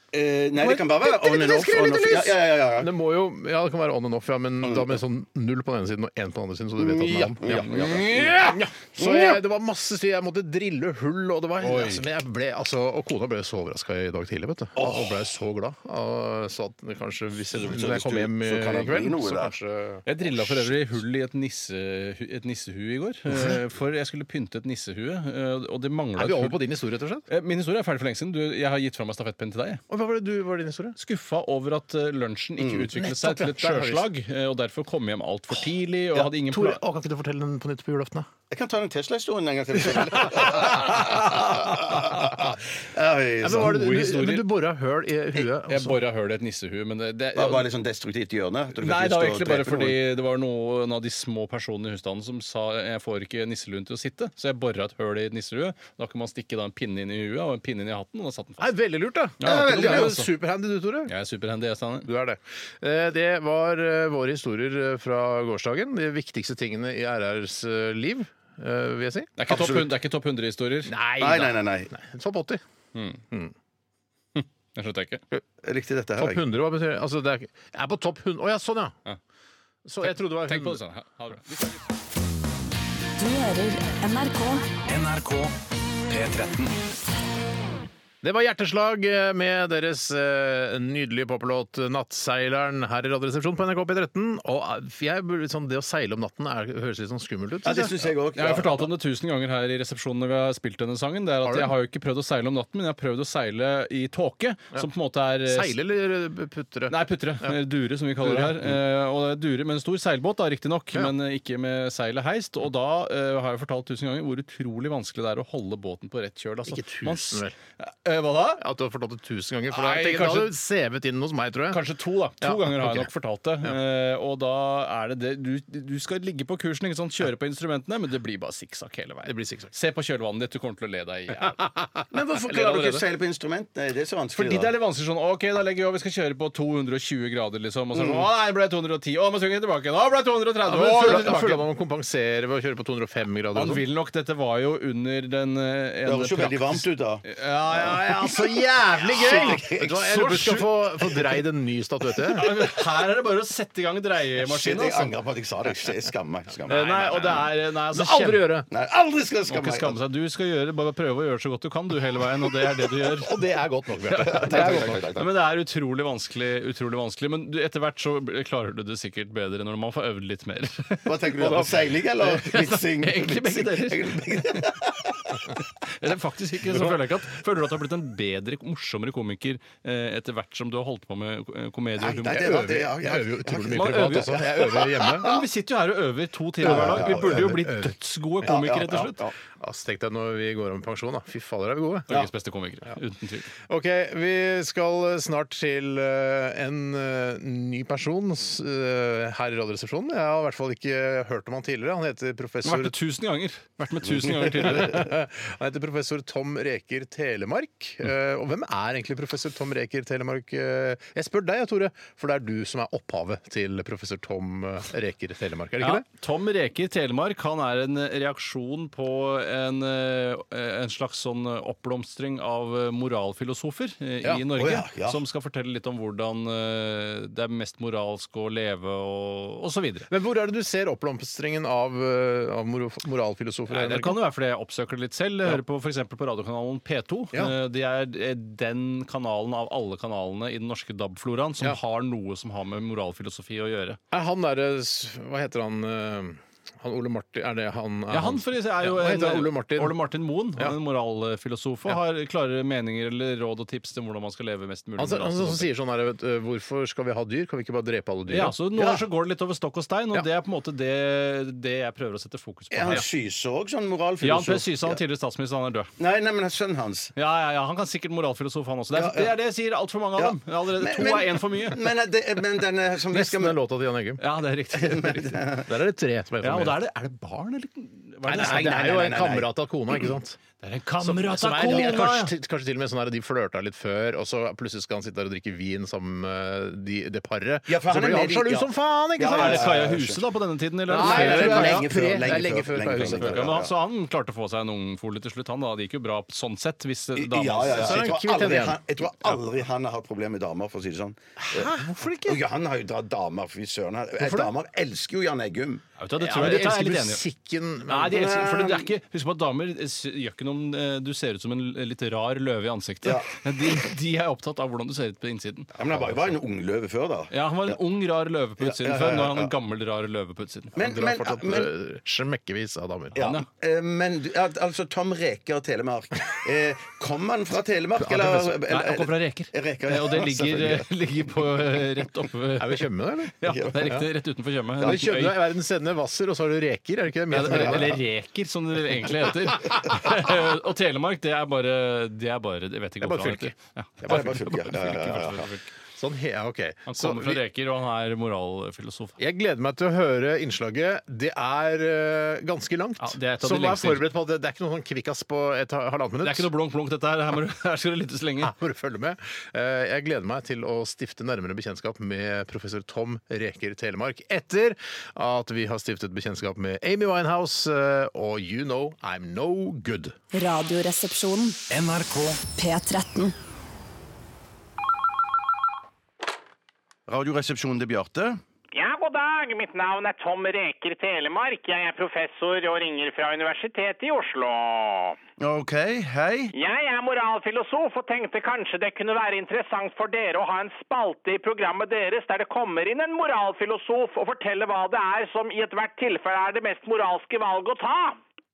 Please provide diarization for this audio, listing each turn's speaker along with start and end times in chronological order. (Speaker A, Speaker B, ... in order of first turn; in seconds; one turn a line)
Speaker A: 0.1-2.9
Speaker B: 1.0-20.1
Speaker A: 4.6-5.0
Speaker A: 6.8-8.4
Speaker C: 7.7-8.4
Speaker A: 9.0-9.4
Speaker C: 11.6-12.0
Speaker A: 14.8-15.2
Speaker A: 17.5-19.5
Speaker C: 20.1-26.6
Speaker B: 26.1-27.2
Speaker C: 27.3-29.8
Speaker B: 29.9-31.0
Speaker C: 31.0-36.8
Speaker A: 32.6-32.9
Speaker B: 32.9-34.1
Speaker B: 36.2-38.3
Speaker A: 38.5-43.7
Speaker B: 40.3-40.6
Speaker C: 40.7-41.2
Speaker B: 43.4-46.0
Speaker C: 43.5-44.5
Speaker C: 45.6-47.6
Speaker A: 47.3-50.0
Speaker C: 48.8-58.7
Speaker B: 58.6-61.1
Speaker C: 59.4-60.3
Speaker A: 59.4-60.1
Speaker C: 61.1-62.1
Speaker B: 62.0-69.4
Speaker C: 69.4-70.9
Speaker A: 69.5-69.9
Speaker B: 70.8-72.6
Speaker A: 71.2-71.9
Speaker C: 72.9-73.2
Speaker C: 74.3-75.2
Speaker A: 75.6-76.4
Speaker B: 76.2-79.0
Speaker B: 79.8-80.8
Speaker C: 80.0-81.8
Speaker D: 83.2-84.7
Speaker E: 84.9-85.5
Speaker E: 86.1-86.8
Speaker B: 88.2-98.1
Speaker A: 97.6-98.8
Speaker C: 98.3-105.7
Speaker B: 101.4-101.7
Speaker B: 105.5-107.5
Speaker C: 106.9-118.6
Speaker B: 108.2-108.8
Speaker B: 116.6-117.5
Speaker B: 118.6-121.8
Speaker C: 119.7-120.5
Speaker C: 121.7-131.7
Speaker B: 122.4-123.1
Speaker B: 129.2-129.7
Speaker B: 131.4-132.1
Speaker A: 132.1-134.7
Speaker C: 132.6-132.9
Speaker C: 134.3-141.6
Speaker B: 140.6-143.8
Speaker C: 143.5-150.7
Speaker A: 146.1-147.2
Speaker A: 147.8-148.3
Speaker B: 148.7-152.6
Speaker A: 149.1-150.0
Speaker C: 152.3-155.1
Speaker A: 154.4-157.5
Speaker C: 156.7-158.6
Speaker B: 157.9-158.7
Speaker A: 158.7-160.0
Speaker C: 159.5-163.3
Speaker B: 163.0-165.0
Speaker A: 164.1-165.3
Speaker C: 164.3-171.7
Speaker A: 171.1-175.1
Speaker C: 172.2-174.8
Speaker C: 175.9-182.7
Speaker A: 182.0-185.3
Speaker B: 182.2-185.3
Speaker C: 183.7-189.2
Speaker B: 186.6-187.9
Speaker A: 186.6-187.4
Speaker A: 188.4-189.3
Speaker B: 189.6-192.2
Speaker C: 192.1-193.5
Speaker B: 193.7-203.0
Speaker C: 202.6-205.1
Speaker B: 204.1-216.0
Speaker C: 215.8-230.1
Speaker A: 224.6-225.2
Speaker B: 230.1-234.2
Speaker C: 233.7-244.0
Speaker B: 244.1-250.0
Speaker C: 248.1-255.7
Speaker B: 255.0-258.6
Speaker C: 258.3-263.0
Speaker A: 258.8-259.0
Speaker A: 262.7-265.0
Speaker C: 264.2-265.9
Speaker A: 266.0-267.1
Speaker C: 267.1-271.8
Speaker A: 268.9-269.3
Speaker A: 270.2-273.6
Speaker B: 273.1-274.2
Speaker C: 274.2-275.5
Speaker A: 274.8-275.6
Speaker B: 275.6-276.8
Speaker C: 276.4-279.0
Speaker B: 278.3-280.4
Speaker A: 278.3-279.5
Speaker C: 280.6-282.3
Speaker B: 281.0-289.8
Speaker A: 287.7-290.2
Speaker C: 289.2-291.9
Speaker B: 290.9-293.6
Speaker A: 290.9-293.7
Speaker C: 292.9-298.1
Speaker A: 297.1-305.8
Speaker B: 297.7-298.8
Speaker B: 301.4-302.4
Speaker B: 304.2-304.5
Speaker C: 306.0-307.2
Speaker B: 306.2-308.4
Speaker C: 307.9-315.7
Speaker A: 308.0-308.9
Speaker A: 313.0-313.3
Speaker A: 315.8-317.8
Speaker C: 317.3-320.7
Speaker A: 318.6-319.5
Speaker A: 320.7-321.7
Speaker B: 320.8-323.2
Speaker A: 323.1-330.9
Speaker C: 323.2-323.4
Speaker B: 328.0-328.3
Speaker C: 328.2-332.9
Speaker B: 332.6-334.0
Speaker C: 333.4-335.4
Speaker B: 334.8-338.0
Speaker C: 337.3-345.7
Speaker B: 343.0-343.5
Speaker A: 344.1-345.5
Speaker B: 345.9-347.4
Speaker C: 346.9-349.2
Speaker B: 349.2-356.5
Speaker C: 353.0-354.1
Speaker C: 356.2-358.5
Speaker B: 358.4-370.1
Speaker D: 370.3-371.6
Speaker E: 371.7-372.4
Speaker D: 372.5-373.3
Speaker A: 377.1-378.4
Speaker F: 378.7-385.2
Speaker A: 385.4-386.5
Speaker F: 386.5-398.2